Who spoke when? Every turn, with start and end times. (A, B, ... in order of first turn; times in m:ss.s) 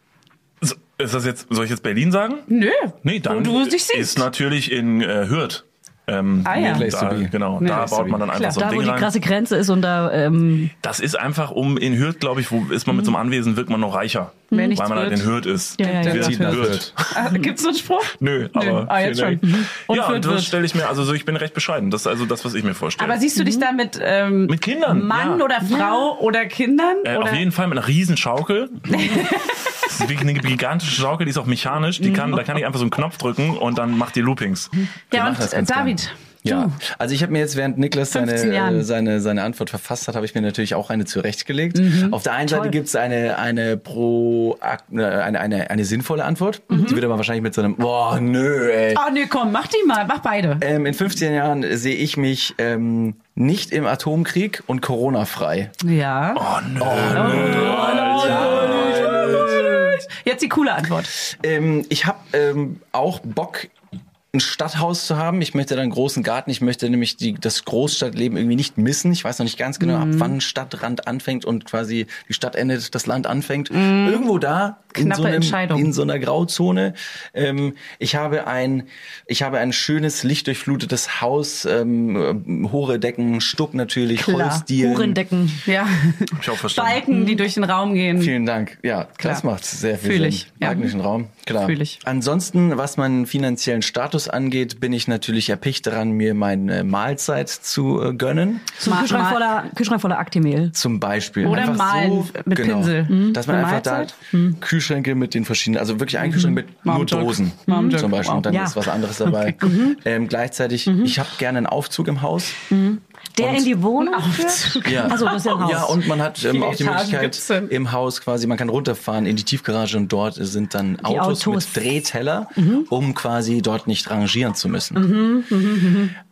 0:00.6-0:02.5 A
0:02.5-0:04.2 B
0:03.0-0:09.1 A
0:06.4-0:06.9 B
0:06.6-0:08.2 C
0:07.6-0:08.6 B
0:08.5-0:10.7 D
0:10.8-0:17.3 A
0:14.5-0:14.8 D
0:14.5-0:16.6 B
0:15.8-0:16.5 D
0:16.1-0:16.9 C
0:17.1-0:20.6 B
0:18.1-0:23.2 A
0:23.0-0:27.5 B
0:23.3-0:23.7 D
0:24.5-0:25.4 A
0:25.6-0:26.1 D
0:27.0-0:29.2 A
0:28.9-0:30.0 B
0:29.8-0:34.7 A
0:32.0-0:32.4 D
0:35.1-0:36.7 B
0:35.1-0:49.0 C
0:38.1-0:38.8 B
0:41.7-0:42.2 B
0:42.5-0:42.7 D
0:46.7-0:47.0 B
0:48.9-0:50.6 B
0:50.6-0:55.7 C
0:55.8-0:56.4 B
0:56.4-0:59.6 A
0:56.8-1:00.0 C
0:57.0-1:01.1 B
1:01.3-1:03.7 C
1:04.3-1:25.2 C
1:09.8-1:10.3 B
1:13.7-1:14.2 B
1:14.9-1:15.9 B
1:24.2-1:24.6 B
1:24.8-1:25.6 D
1:25.6-1:28.3 B
1:26.4-1:27.1 A
1:27.1-1:27.4 D
1:28.2-1:38.7 C
1:30.0-1:30.9 B
1:31.6-1:32.0 B
1:38.8-1:40.7 D
1:38.8-1:39.5 B
1:40.7-1:52.6 C
1:41.4-1:44.1 B
1:43.1-1:43.4 D
1:44.3-1:44.6 D
1:46.8-1:48.4 B
1:47.7-1:48.0 D
1:48.5-1:48.8 D
1:49.2-1:49.7 B
1:49.6-1:50.0 D
1:50.9-1:51.2 D
1:52.7-1:56.0 D
1:53.4-1:53.7 C
1:54.0-1:55.5 B
1:54.8-2:05.0 C
1:56.4-1:57.7 B
2:01.0-2:01.8 D
2:02.6-2:02.9 D
2:05.0-2:06.1 D